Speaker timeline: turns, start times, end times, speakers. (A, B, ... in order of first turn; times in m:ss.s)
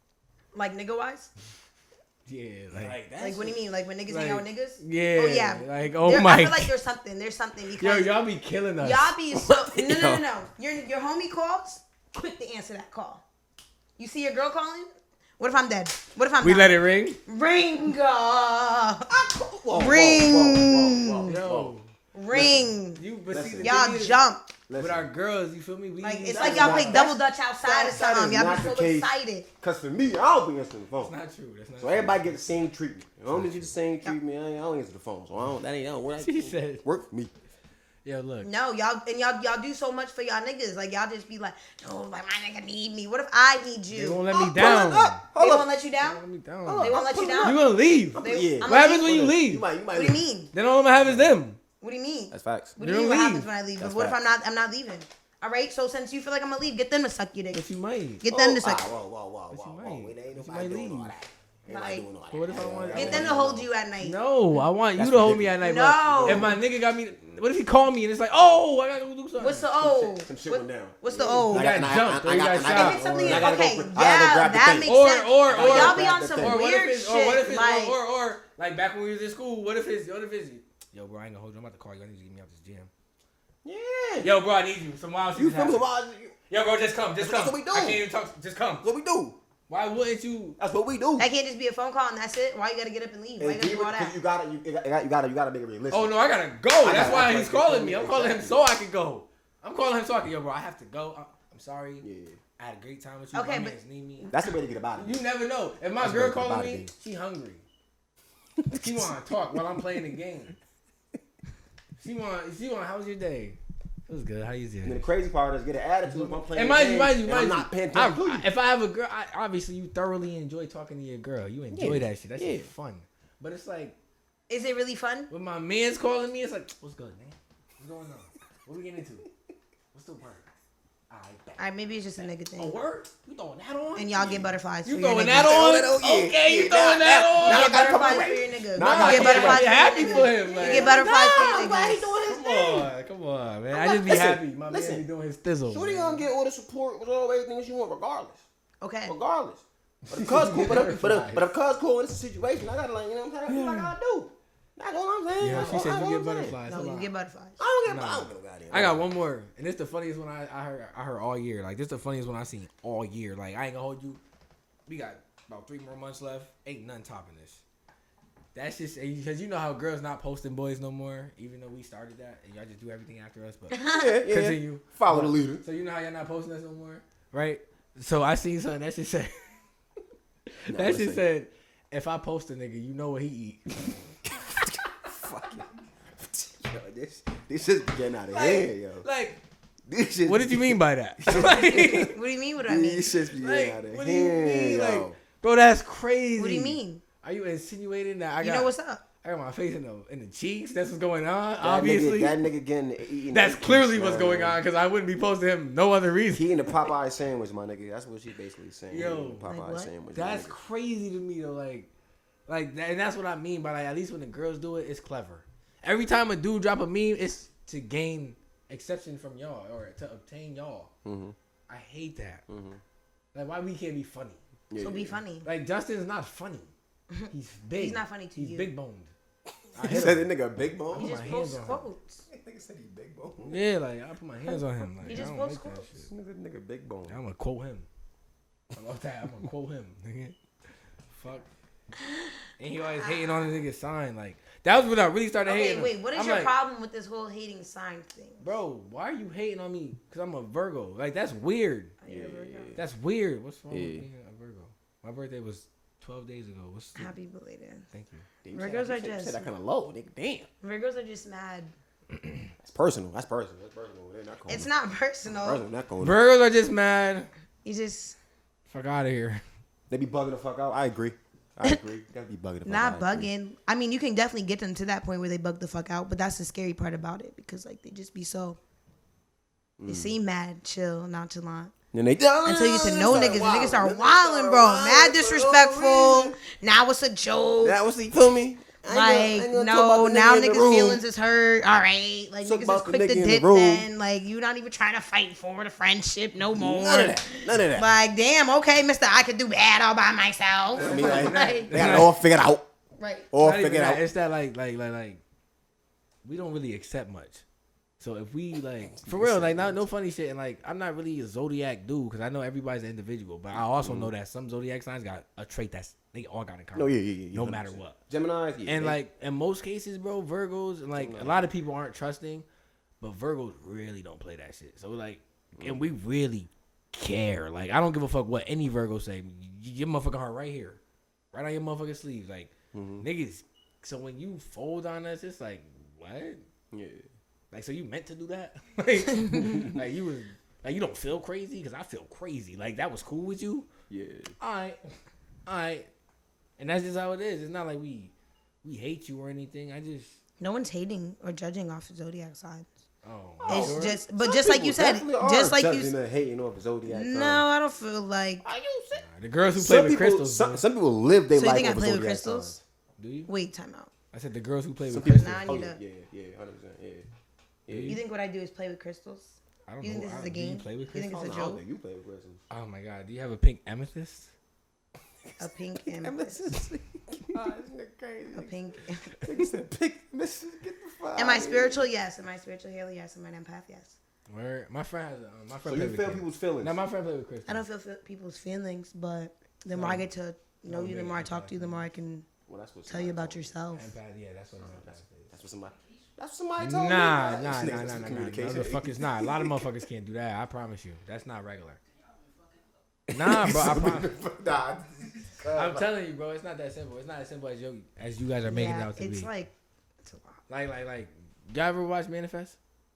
0:00.5-0:01.3 A
0:02.3-0:03.6 B
0:02.7-0:03.0 C
0:03.2-0:08.2 A
0:04.1-0:06.7 B
0:07.8-0:09.1 B
0:08.8-0:13.2 A
0:09.4-0:10.2 C
0:14.0-0:19.1 A
0:16.4-0:17.2 B
0:19.1-0:21.7 C
0:19.7-0:21.4 A
0:21.3-0:21.9 B
0:22.1-0:23.0 A
0:22.3-0:22.7 C
0:23.0-0:24.2 B
0:23.3-0:23.8 C
0:23.6-0:24.5 A
0:24.7-0:25.1 C
0:24.8-0:27.1 B
0:26.0-0:29.5 A
0:26.3-0:31.2 C
0:31.0-0:32.4 B
0:31.8-0:37.3 C
0:33.3-0:33.7 B
0:36.2-0:36.8 B
0:38.0-0:38.5 B
0:38.4-0:44.2 A
0:43.9-0:45.2 B
0:44.3-0:45.7 C
0:45.4-0:46.2 A
0:46.0-0:49.6 B
0:46.7-0:50.2 C
0:46.8-0:47.6 A
0:48.2-0:49.1 A
0:49.9-0:50.5 A
0:50.5-0:51.6 B
0:51.0-0:51.4 C
0:51.8-0:57.6 A
0:52.3-0:52.8 C
0:52.8-0:53.5 B
0:53.8-0:54.2 C
0:57.5-0:58.2 B
0:58.2-0:58.9 A
0:58.3-1:03.7 C
0:59.5-1:01.2 B
1:01.7-1:02.1 A
1:02.3-1:03.4 B
1:02.9-1:04.2 A
1:04.0-1:09.7 B
1:05.0-1:06.6 C
1:05.6-1:06.5 A
1:09.4-1:11.7 A
1:09.8-1:16.6 C
1:11.5-1:13.5 B
1:12.7-1:18.0 A
1:14.8-1:22.9 B
1:23.6-1:24.3 C
1:24.2-1:25.8 B
1:25.4-1:26.4 C
1:26.5-1:28.9 B
1:27.2-1:28.0 C
1:28.8-1:29.4 C
1:29.7-1:30.6 B
1:30.6-1:31.3 C
1:31.2-1:34.2 A
1:33.4-1:36.1 C
1:35.9-1:42.0 B
1:36.8-1:38.6 C
1:42.0-1:42.4 C
1:42.6-1:44.3 B
1:43.3-1:44.3 A
1:44.3-1:45.2 C
1:45.0-1:47.6 B
1:46.0-1:46.9 C
1:48.6-1:49.2 C
1:48.7-1:50.6 B
1:52.0-1:55.0 B
1:54.8-1:58.5 C
1:56.1-2:04.0 B
2:01.7-2:02.7 C
2:04.5-2:05.3 A
2:05.3-2:09.3 B
2:09.9-2:10.4 B
2:11.1-2:11.6 B
2:11.6-2:12.8 A
2:12.2-2:21.4 B
2:14.0-2:15.6 A
2:15.3-2:22.9 C
2:17.4-2:22.1 A
2:22.2-2:26.3 B
2:23.7-2:25.0 C
2:25.7-2:28.4 C
2:28.8-2:29.2 A
2:29.1-2:36.6 C
2:30.0-2:31.5 B
2:33.5-2:33.9 B
2:35.4-2:37.1 B
2:36.7-2:37.6 A
2:37.6-2:39.1 C
2:37.9-2:44.2 B
2:44.9-2:47.6 B
2:48.6-2:59.3 B
2:53.7-2:54.0 A
2:53.9-2:55.6 C
3:00.6-3:04.0 B
3:00.7-3:01.2 C
3:04.3-3:09.0 C
3:08.3-3:09.4 B
3:09.9-3:15.2 C
3:10.2-3:12.2 B
3:11.4-3:13.1 A
3:13.4-3:22.4 B
3:16.4-3:17.0 A
3:18.4-3:19.0 A
3:21.6-3:24.6 C
3:23.3-3:26.8 B
3:26.3-3:30.6 C
3:28.9-3:29.5 B
3:29.5-3:29.9 A
3:30.1-3:31.9 B
3:32.5-3:40.9 B
3:41.0-3:41.4 C
3:41.7-3:42.4 B
3:42.5-3:42.8 C
3:43.3-3:44.4 B
3:44.7-3:45.2 C
3:44.8-3:45.5 A
3:45.4-3:46.7 B
3:47.1-3:48.7 A
3:47.3-3:49.1 B
3:49.8-3:50.3 B
3:49.8-3:51.2 C
3:50.9-3:51.9 B
3:51.0-3:52.2 A
3:52.3-3:53.6 C
3:53.4-3:56.1 B
3:55.0-3:55.9 A
3:56.0-3:57.2 C
3:57.1-3:57.9 B
3:58.7-4:00.4 B
4:01.1-4:01.5 B
4:02.0-4:02.3 A
4:02.6-4:06.5 B
4:03.0-4:03.6 A
4:05.4-4:08.6 A
4:08.4-4:12.0 B
4:12.0-4:12.8 A
4:12.1-4:12.8 C
4:12.8-4:17.1 B
4:13.7-4:14.1 C
4:17.0-4:17.9 A
4:17.9-4:18.3 B
4:18.4-4:20.5 C
4:18.5-4:19.5 A
4:20.6-4:21.7 A
4:22.6-4:24.7 C
4:24.5-4:25.6 A
4:25.3-4:26.2 C
4:26.0-4:27.3 B
4:27.6-4:28.2 A
4:28.7-4:29.4 B
4:29.9-4:33.3 C
4:32.6-4:38.6 A
4:39.8-4:40.1 C
4:39.9-4:41.7 A
4:41.9-4:46.4 C
4:42.4-4:47.8 A
4:47.6-4:51.0 C
4:48.8-5:01.8 A
4:52.4-4:53.9 C
4:56.5-4:57.9 C
5:00.8-5:02.2 B
5:00.8-5:02.7 C
5:03.0-5:03.3 A
5:03.3-5:04.0 C
5:03.4-5:05.2 B
5:06.2-5:07.4 B
5:08.0-5:18.0 B
5:08.9-5:09.9 C
5:13.6-5:14.1 C
5:16.8-5:19.0 C
5:18.7-5:22.4 B
5:21.0-5:21.5 C
5:23.0-5:30.8 B
5:25.6-5:25.8 C
5:31.3-5:36.4 B
5:32.7-5:33.1 C
5:36.7-5:37.1 C
5:37.5-5:43.7 B
5:39.3-5:39.8 C
5:43.9-5:44.4 C
5:44.4-5:44.8 B
5:45.5-5:45.9 B
5:46.6-5:48.1 B
5:48.6-5:50.2 B
5:50.4-5:52.7 A
5:53.0-5:54.0 B
5:53.4-5:57.5 C
5:53.5-5:55.9 A
5:56.9-5:58.4 A
5:58.4-6:02.6 C
5:59.0-6:00.6 B
6:01.3-6:02.5 A
6:03.0-6:03.3 B
6:03.3-6:03.9 A
6:04.1-6:05.5 B
6:04.9-6:07.1 C
6:05.1-6:05.8 A
6:07.7-6:08.0 C
6:07.7-6:08.0 B
6:07.9-6:11.6 A
6:09.7-6:11.4 B
6:11.1-6:12.4 C
6:12.5-6:14.3 B
6:15.4-6:16.4 A
6:15.4-6:18.5 C
6:18.3-6:19.1 A
6:19.2-6:21.8 C
6:21.2-6:24.0 A
6:24.3-6:27.6 B
6:25.6-6:26.8 C
6:27.5-6:32.3 A
6:29.7-6:30.1 B
6:30.7-6:31.9 B
6:32.5-6:33.5 C
6:32.9-6:33.9 A
6:33.7-6:35.3 B
6:34.6-6:39.7 C
6:36.6-6:41.8 B
6:43.1-6:45.9 C
6:43.1-6:44.2 B
6:45.5-6:49.3 B
6:48.5-6:49.5 A
6:50.0-6:50.4 A
6:50.5-6:52.6 B